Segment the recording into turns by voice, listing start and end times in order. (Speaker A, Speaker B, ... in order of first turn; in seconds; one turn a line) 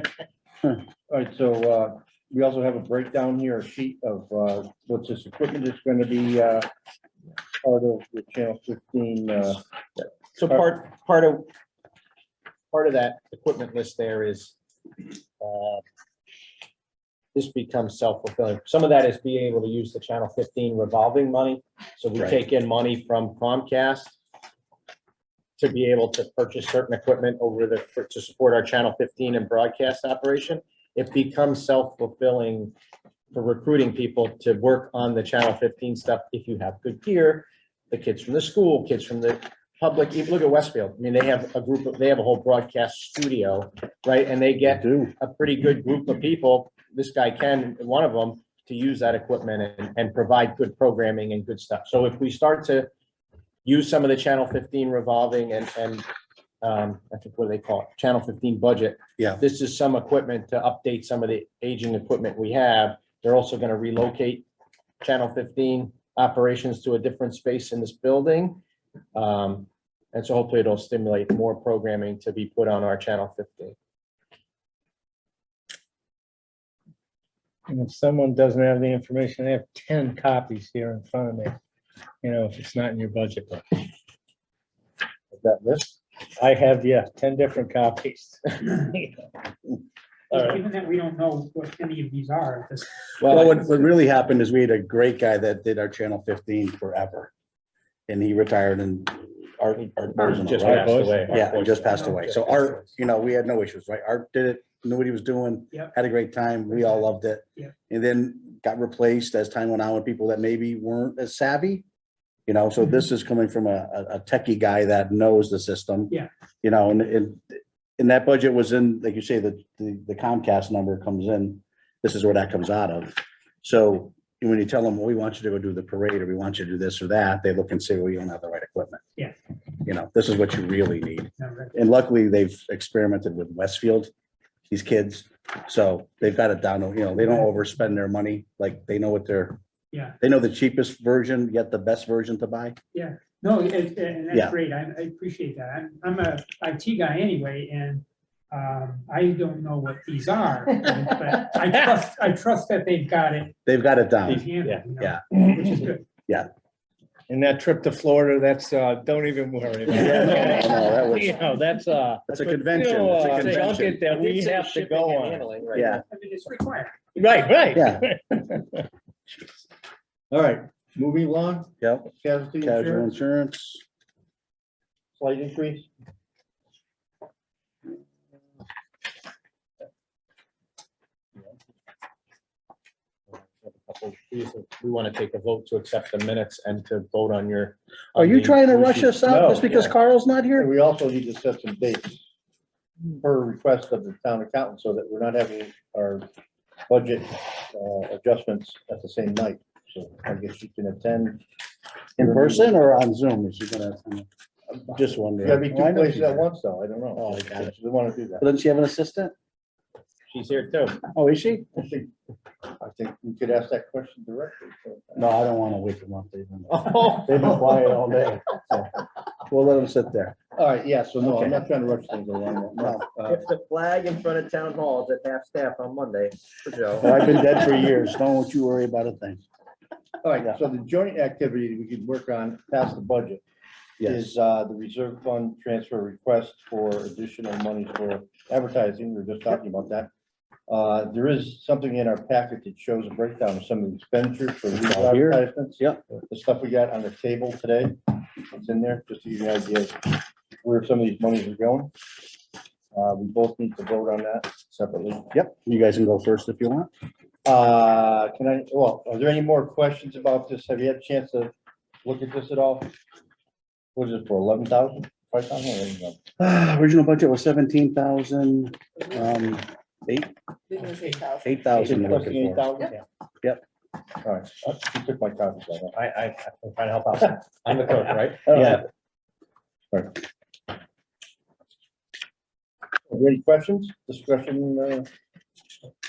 Speaker A: 1.1-6.7
Speaker A: 7.6-9.6
Speaker B: 10.0-11.5
Speaker B: 12.7-14.6
Speaker B: 15.4-15.8
Speaker B: 17.3-24.2
Speaker B: 25.6-32.8
Speaker B: 33.3-52.9
Speaker C: 44.7-45.1
Speaker B: 53.6-56.1
Speaker B: 56.6-64.5
Speaker B: 65.0-68.6
Speaker B: 69.2-73.8
Speaker D: 77.7-81.6
Speaker D: 82.2-83.8
Speaker A: 85.4-86.0
Speaker D: 86.4-89.2
Speaker E: 90.3-93.6
Speaker B: 93.2-93.6
Speaker C: 93.2-97.3
Speaker C: 98.1-111.8
Speaker B: 99.8-102.9
Speaker D: 100.4-101.4
Speaker E: 106.7-107.0
Speaker C: 112.5-129.0
Speaker C: 129.9-134.1
Speaker E: 131.4-131.8
Speaker C: 134.7-139.6
Speaker C: 140.2-142.8
Speaker E: 142.9-153.6
Speaker C: 153.7-155.2
Speaker E: 154.3-156.1
Speaker B: 154.3-154.8
Speaker D: 157.3-165.5
Speaker C: 159.9-161.4
Speaker C: 162.3-164.0
Speaker B: 163.2-166.0
Speaker C: 165.7-166.0
Speaker E: 166.1-167.2
Speaker D: 167.2-168.9
Speaker C: 167.7-168.1
Speaker A: 170.3-173.1
Speaker C: 171.8-173.8
Speaker A: 175.2-175.9
Speaker B: 183.3-189.9
Speaker C: 188.2-190.7
Speaker A: 189.2-189.7
Speaker A: 190.6-192.2
Speaker A: 193.2-196.3
Speaker A: 196.9-201.4
Speaker A: 202.2-202.7
Speaker C: 202.2-204.3
Speaker C: 204.9-206.4
Speaker A: 205.2-208.4
Speaker C: 207.2-207.7
Speaker C: 208.4-209.3
Speaker B: 210.3-211.0
Speaker C: 211.1-211.7
Speaker A: 211.8-212.1
Speaker A: 212.7-215.3
Speaker C: 215.2-218.6
Speaker B: 216.7-217.8
Speaker C: 219.5-220.4
Speaker A: 220.6-223.4
Speaker B: 221.2-221.6
Speaker B: 223.3-227.2
Speaker C: 227.0-229.4
Speaker A: 230.2-233.4
Speaker C: 234.0-234.3
Speaker A: 234.0-240.1
Speaker A: 240.7-251.9
Speaker C: 244.7-246.0
Speaker A: 252.9-255.3
Speaker C: 255.3-256.9
Speaker A: 257.4-261.5
Speaker A: 262.0-262.9
Speaker A: 263.9-266.2
Speaker C: 266.4-270.3
Speaker C: 271.4-272.7
Speaker A: 271.7-272.9
Speaker B: 271.8-272.1
Speaker A: 274.2-275.9
Speaker B: 275.9-278.8
Speaker A: 278.5-278.8
Speaker C: 278.5-278.8
Speaker A: 279.9-280.2
Speaker A: 283.1-285.1